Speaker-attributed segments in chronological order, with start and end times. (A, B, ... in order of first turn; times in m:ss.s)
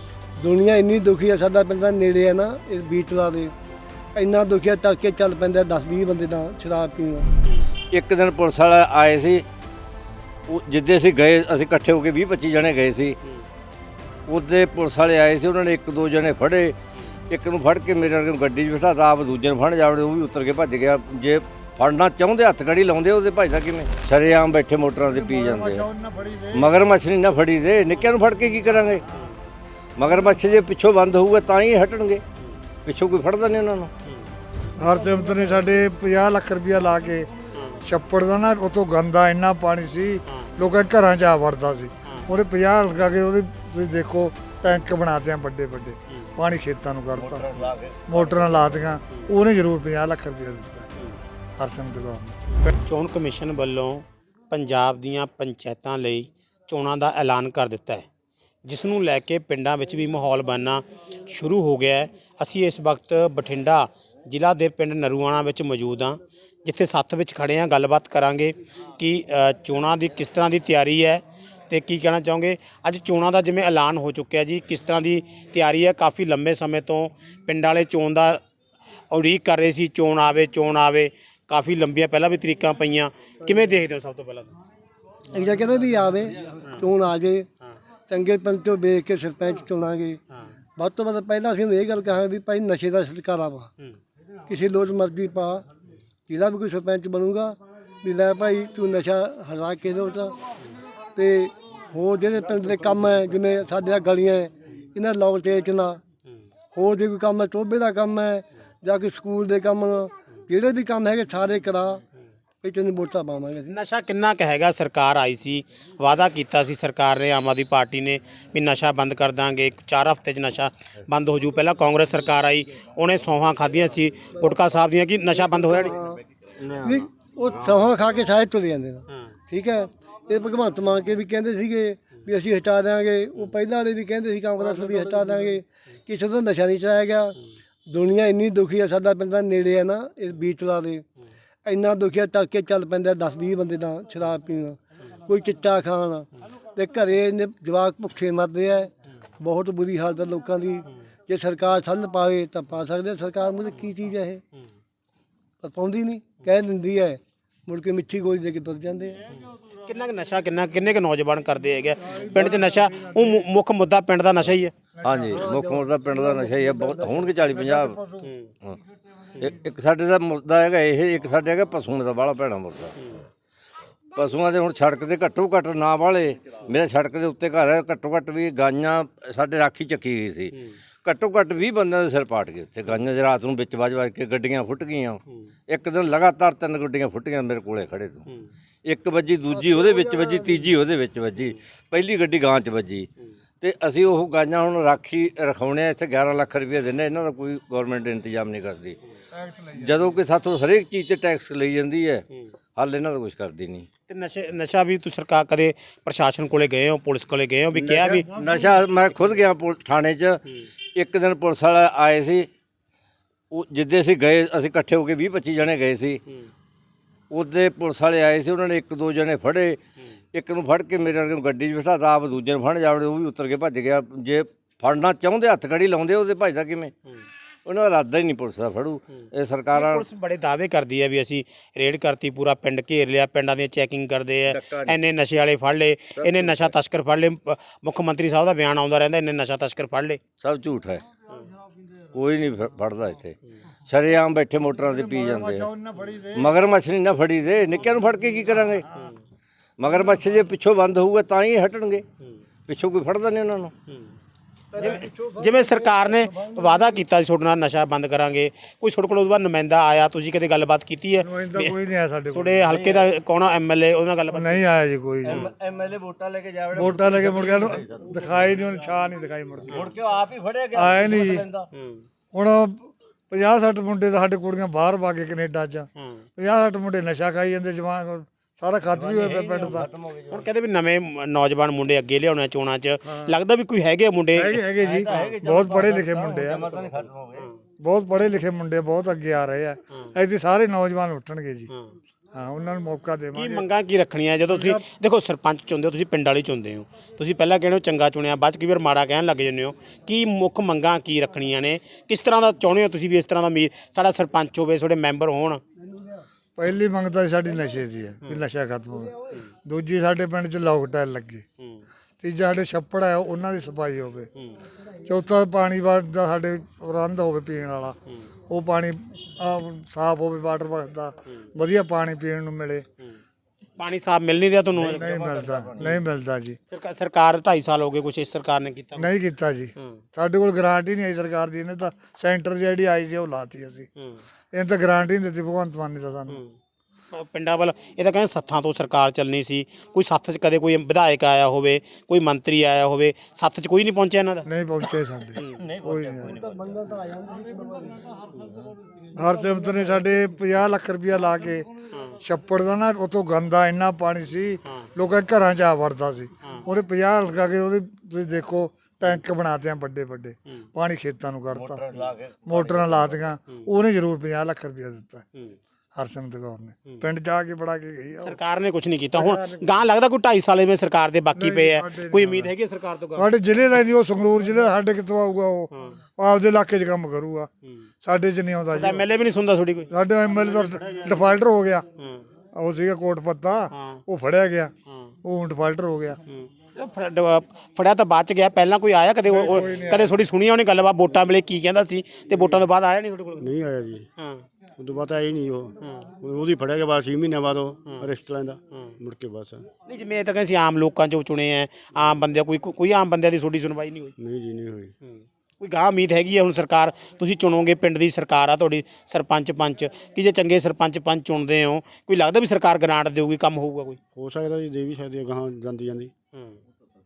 0:00.4-0:03.5 A
0:04.1-0:07.3 A
0:07.9-0:09.4 B
0:10.5-0:13.2 B
0:14.3-0:16.8 B
0:17.3-0:25.9 B
0:25.1-0:26.8 C
0:26.5-0:29.0 B
0:30.0-0:32.2 B
0:32.8-0:33.9 B
0:34.8-0:37.3 C
0:37.6-0:37.8 D
0:37.8-0:47.4 C
0:47.1-0:48.7 B
0:48.1-0:50.9 C
0:51.6-0:52.7 C
0:52.8-0:58.0 D
0:58.6-1:18.4 D
1:19.1-1:24.5 D
1:25.3-1:27.5 A
1:28.1-1:30.2 A
1:30.8-1:33.7 A
1:34.4-1:35.6 A
1:36.3-1:40.4 A
1:41.2-1:46.0 A
1:46.7-1:52.0 A
1:52.6-1:53.8 A
1:53.7-2:05.9 D
2:05.4-2:06.2 A
2:06.6-2:07.9 B
2:06.8-2:17.4 A
2:17.9-2:21.0 A
2:21.6-2:34.4 A
2:35.6-2:39.2 A
2:39.8-2:44.7 D
2:42.0-2:43.4 C
2:45.0-2:45.5 C
2:45.0-2:48.0 B
2:45.3-2:47.3 A
2:47.5-2:48.3 C
2:48.2-2:48.5 D
2:49.4-2:52.9 B
2:53.0-2:53.2 D
2:54.1-3:00.5 B
3:01.0-3:08.2 B
3:08.8-3:13.1 B
3:09.5-3:10.7 A
3:13.6-3:19.0 B
3:19.3-3:19.9 C
3:19.7-3:22.2 B
3:22.8-3:23.9 B
3:24.1-3:28.3 D
3:27.8-3:28.8 C
3:28.3-3:30.4 B
3:30.9-3:32.5 B
3:33.5-3:36.2 B
3:37.3-3:39.8 B
3:40.3-3:46.9 B
3:47.6-3:50.0 B
3:49.7-4:00.2 D
3:54.4-3:55.0 B
3:56.2-3:56.7 B
4:00.4-4:01.0 B
4:02.1-4:03.4 B
4:03.9-4:05.7 B
4:04.8-4:06.6 C
4:06.4-4:08.8 B
4:09.8-4:12.0 B
4:12.7-4:13.7 B
4:14.7-4:17.0 A
4:14.8-4:21.8 D
4:21.2-4:22.8 C
4:22.3-4:24.6 D
4:22.7-4:23.1 B
4:24.3-4:25.4 C
4:25.2-4:28.2 B
4:26.7-4:29.8 C
4:29.7-4:31.7 B
4:30.7-4:31.4 C
4:31.7-4:32.0 D
4:32.3-4:39.9 C
4:36.0-4:36.2 D
4:38.9-4:40.5 B
4:40.3-4:44.6 D
4:43.0-4:43.4 C
4:44.3-4:46.6 C
4:44.8-4:47.5 B
4:46.6-4:47.5 D
4:47.8-4:51.7 C
4:51.7-4:52.0 D
4:52.3-4:53.6 C
4:53.3-5:05.6 D
4:54.5-4:54.8 C
5:06.6-5:11.4 C
5:12.2-5:14.3 C
5:15.0-5:18.0 C
5:18.5-5:22.8 C
5:23.8-5:25.1 D
5:24.8-5:25.9 B
5:24.8-5:26.6 C
5:26.7-5:29.1 D
5:29.0-5:33.9 C
5:34.5-5:36.4 C
5:37.1-5:44.5 D
5:44.4-5:46.3 C
5:45.4-5:45.6 D
5:45.5-5:46.5 B
5:46.4-5:48.1 A
5:49.2-5:51.7 C
5:52.2-6:01.8 C
6:01.5-6:03.2 B
6:02.4-6:05.2 C
6:05.9-6:08.4 C
6:08.2-6:13.3 D
6:09.1-6:09.8 C
6:11.3-6:12.5 C
6:13.1-6:17.5 C
6:15.7-6:16.0 D
6:18.0-6:19.0 C
6:18.7-6:19.9 D
6:19.9-6:21.8 C
6:22.5-6:24.7 C
6:23.7-6:24.0 D
6:25.2-6:26.2 C
6:26.3-6:33.5 D
6:29.2-6:30.2 C
6:33.4-6:34.1 E
6:34.2-6:34.4 D
6:34.8-6:39.7 E
6:35.8-6:36.1 D
6:39.9-6:44.1 D
6:44.2-6:44.9 E
6:45.0-6:54.0 D
6:54.1-6:56.1 E